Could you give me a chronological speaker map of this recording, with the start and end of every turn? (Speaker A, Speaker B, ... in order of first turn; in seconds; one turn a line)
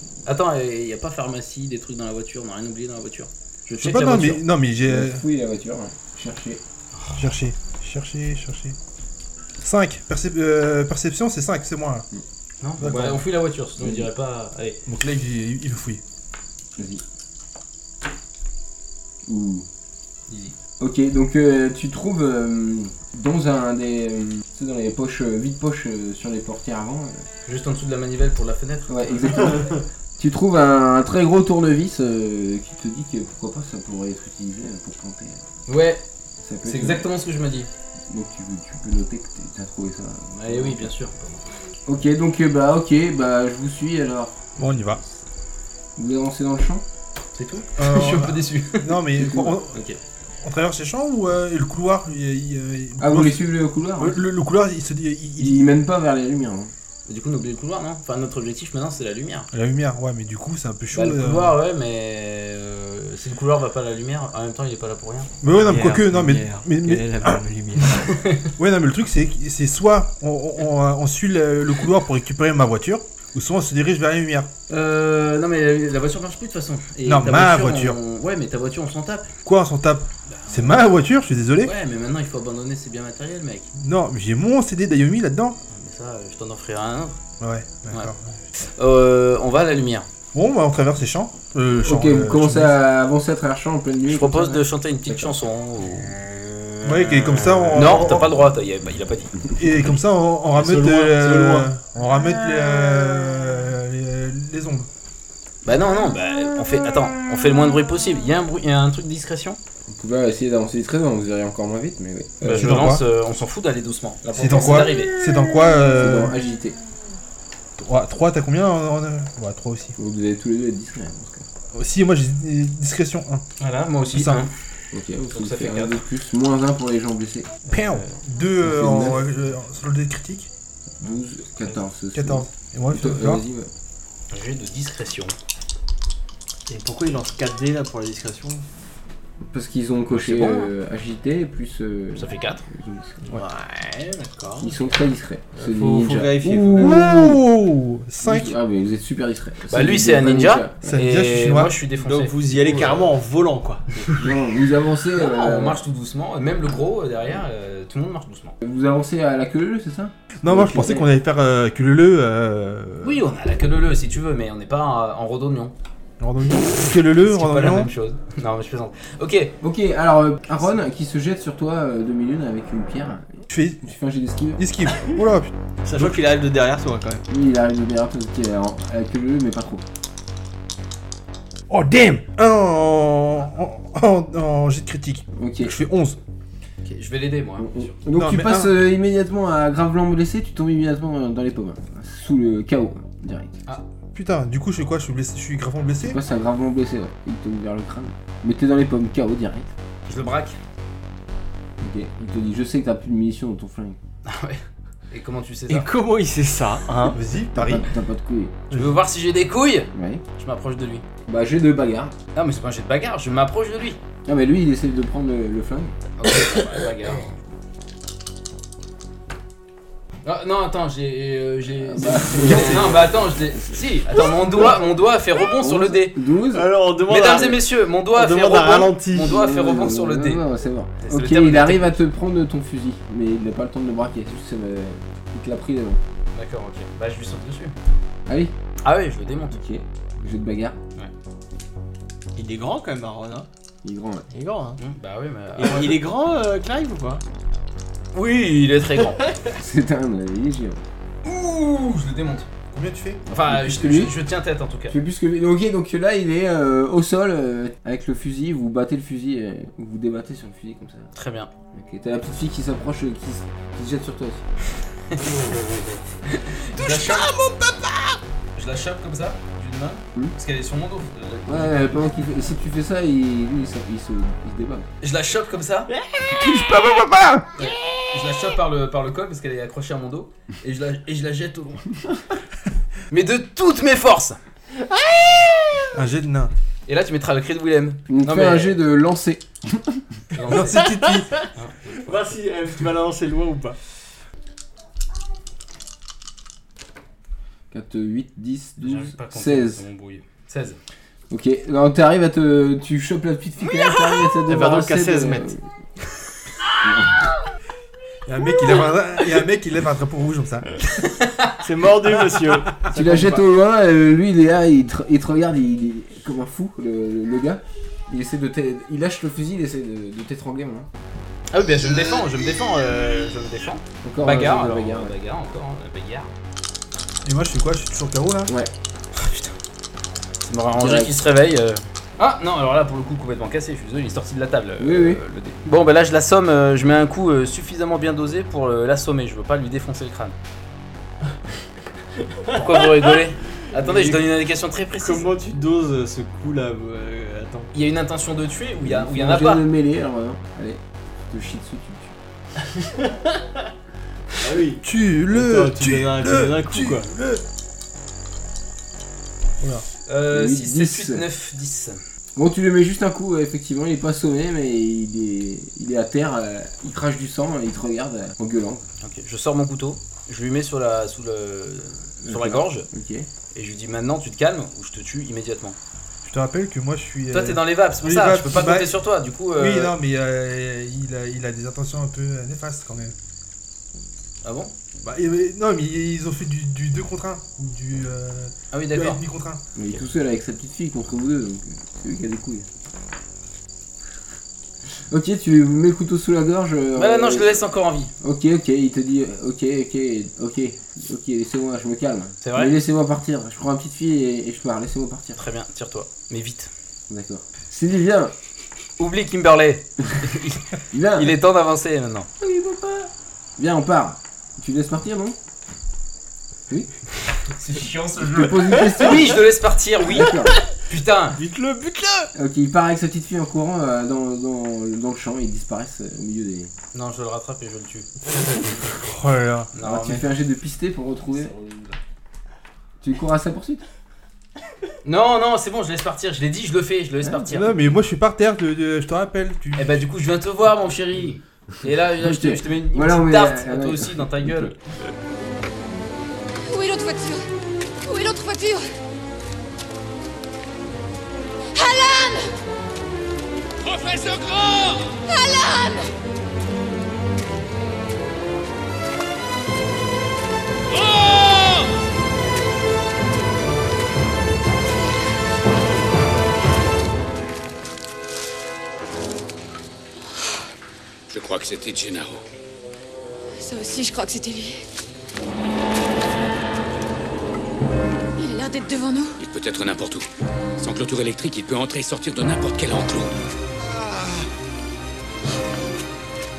Speaker A: 0.2-4.4
Speaker B: 3.8-5.2
Speaker C: 4.8-6.6
Speaker A: 7.0-7.2
Speaker B: 7.2-8.8
Speaker B: 9.6-12.1
Speaker A: 12.6-14.8
Speaker B: 12.8-13.2
Speaker C: 13.8-14.1
Speaker B: 14.9-16.0
Speaker C: 16.8-17.0
Speaker C: 19.2-19.7
Speaker A: 20.3-20.6
Speaker C: 20.8-27.3
Speaker A: 27.5-29.7
Speaker C: 28.9-35.4
Speaker A: 35.7-36.0
Speaker C: 36.4-37.1
Speaker A: 36.6-37.7
Speaker C: 38.1-40.9
Speaker A: 40.3-41.5
Speaker C: 41.9-44.5
Speaker B: 44.6-45.0
Speaker C: 46.0-46.9
Speaker A: 47.4-49.0
Speaker B: 47.8-49.8
Speaker C: 49.2-49.6
Speaker B: 50.4-53.4
Speaker C: 53.0-54.2
Speaker B: 54.0-55.6
Speaker C: 55.4-56.7
Speaker A: 57.1-59.5
Speaker B: 59.5-61.6
Speaker A: 60.9-65.3
Speaker B: 65.4-67.4
Speaker D: 65.5-68.0
Speaker A: 68.0-68.5
Speaker B: 68.6-74.5
Speaker A: 74.7-79.3
Speaker B: 77.0-78.0
Speaker B: 79.5-81.7
Speaker A: 80.3-80.9
Speaker A: 81.6-83.7
Speaker B: 83.8-85.6
Speaker A: 85.7-87.2
Speaker B: 87.4-88.3
Speaker A: 88.7-90.1
Speaker B: 90.3-92.8
Speaker C: 91.8-95.3
Speaker A: 94.1-96.2
Speaker B: 96.8-98.4
Speaker A: 97.7-99.3
Speaker B: 99.6-104.9
Speaker D: 100.6-101.7
Speaker A: 105.7-109.6
Speaker C: 109.9-112.7
Speaker A: 112.4-115.1
Speaker B: 112.5-113.0
Speaker B: 114.3-116.3
Speaker C: 115.7-116.8
Speaker B: 117.8-120.0
Speaker C: 120.0-121.5
Speaker B: 121.7-123.5
Speaker A: 123.6-124.5
Speaker B: 124.1-124.5
Speaker C: 124.9-127.6
Speaker A: 125.3-126.0
Speaker B: 127.7-130.5
Speaker C: 128.6-129.2
Speaker C: 131.0-133.7
Speaker B: 132.1-133.4
Speaker A: 134.3-135.3
Speaker D: 136.7-138.7
Speaker C: 139.4-143.2
Speaker A: 140.1-140.7
Speaker A: 142.2-142.6
Speaker D: 143.3-144.8
Speaker C: 144.6-147.4
Speaker D: 145.5-146.9
Speaker B: 146.7-148.5
Speaker C: 148.2-150.9
Speaker A: 149.7-153.1
Speaker B: 150.8-151.8
Speaker D: 152.0-154.3
Speaker C: 154.2-155.8
Speaker A: 155.2-158.6
Speaker C: 158.6-161.1
Speaker B: 160.4-163.2
Speaker A: 163.0-165.7
Speaker B: 166.2-167.9
Speaker A: 167.2-169.5
Speaker C: 169.6-174.7
Speaker B: 173.5-173.8
Speaker B: 174.6-176.2
Speaker D: 175.8-177.2
Speaker C: 177.3-179.8
Speaker B: 181.7-186.2
Speaker C: 185.4-185.8
Speaker A: 186.8-188.0
Speaker C: 187.6-193.6
Speaker B: 188.2-188.7
Speaker B: 194.2-196.2
Speaker C: 196.0-199.7
Speaker A: 200.1-200.6
Speaker C: 201.8-204.0
Speaker A: 204.3-205.9
Speaker D: 205.7-207.2
Speaker B: 207.1-207.9
Speaker C: 207.5-208.6
Speaker B: 208.7-209.0
Speaker A: 208.7-211.0
Speaker C: 209.9-210.2
Speaker C: 211.3-212.2
Speaker A: 212.3-214.0
Speaker C: 214.3-216.0
Speaker A: 216.2-217.3
Speaker A: 220.2-226.2
Speaker C: 221.8-223.8
Speaker C: 225.6-226.7
Speaker D: 226.5-229.3
Speaker A: 227.1-230.4
Speaker C: 229.2-236.0
Speaker A: 231.0-232.0
Speaker A: 236.3-237.7
Speaker C: 238.3-238.5
Speaker A: 238.8-239.6
Speaker C: 239.5-240.8
Speaker D: 242.3-243.5
Speaker C: 243.8-244.3
Speaker D: 244.3-244.8
Speaker A: 244.8-246.0
Speaker D: 245.6-247.2
Speaker A: 248.1-249.2
Speaker C: 249.6-250.8
Speaker A: 251.2-252.5
Speaker B: 252.7-253.2
Speaker A: 253.3-255.0
Speaker C: 253.3-254.2
Speaker C: 254.9-261.1
Speaker A: 261.1-261.5
Speaker C: 261.7-264.5
Speaker A: 266.2-267.3
Speaker D: 266.8-268.2
Speaker A: 268.6-272.0
Speaker C: 271.5-274.9
Speaker A: 275.0-275.9
Speaker D: 276.0-276.3
Speaker C: 276.3-277.5
Speaker A: 277.6-281.9
Speaker A: 283.1-284.4
Speaker D: 284.8-285.8
Speaker B: 285.9-286.5
Speaker A: 286.9-288.8
Speaker C: 288.1-290.1
Speaker A: 290.3-292.4
Speaker B: 290.5-291.3
Speaker D: 290.8-293.8
Speaker C: 297.7-299.8
Speaker A: 298.8-300.8
Speaker C: 301.3-305.6
Speaker D: 304.5-305.5
Speaker C: 306.8-307.3
Speaker B: 308.3-310.8
Speaker A: 311.1-311.6
Speaker D: 311.6-313.4
Speaker C: 312.9-320.9
Speaker A: 321.5-326.3
Speaker C: 324.0-325.1
Speaker B: 327.2-328.5
Speaker A: 329.2-329.6
Speaker A: 330.4-340.4
Speaker C: 330.7-331.2
Speaker C: 334.8-335.4
Speaker D: 342.3-343.1
Speaker A: 342.6-345.3
Speaker D: 343.8-344.3
Speaker D: 344.9-347.7
Speaker A: 347.7-349.7
Speaker C: 348.8-352.2
Speaker D: 352.7-353.5
Speaker D: 354.4-357.1
Speaker B: 354.8-357.4
Speaker A: 360.1-362.0
Speaker C: 360.3-361.2
Speaker C: 362.4-368.9
Speaker A: 369.0-372.9
Speaker C: 372.2-373.3
Speaker A: 373.5-375.8
Speaker B: 376.2-379.0
Speaker A: 377.3-380.0
Speaker B: 379.5-383.1
Speaker A: 384.4-384.7
Speaker B: 385.0-389.6
Speaker A: 388.7-389.2
Speaker C: 389.8-392.7
Speaker C: 395.1-397.6
Speaker A: 397.0-398.1
Speaker C: 398.2-405.4
Speaker A: 402.4-402.8
Speaker A: 405.4-406.7
Speaker C: 407.1-408.3
Speaker A: 409.0-412.3
Speaker C: 410.9-411.4
Speaker C: 412.4-415.4
Speaker A: 417.6-420.3
Speaker C: 418.2-419.4
Speaker C: 420.0-420.5
Speaker A: 420.9-421.4
Speaker D: 421.4-422.3
Speaker C: 422.4-426.7
Speaker A: 426.9-428.7
Speaker B: 428.9-429.7
Speaker A: 429.7-430.3
Speaker C: 429.8-431.5
Speaker A: 431.5-431.9
Speaker C: 433.0-433.9
Speaker A: 435.0-437.8
Speaker C: 437.2-437.5
Speaker B: 437.5-440.0
Speaker A: 439.8-444.8
Speaker C: 442.2-444.7
Speaker E: 446.7-447.4
Speaker E: 448.1-448.9
Speaker E: 451.7-452.5
Speaker F: 454.1-454.6
Speaker E: 455.2-456.1
Speaker E: 470.3-470.6
Speaker F: 471.3-472.4
Speaker E: 473.6-474.8
Speaker E: 478.4-479.4
Speaker F: 479.4-480.3
Speaker F: 480.8-483.4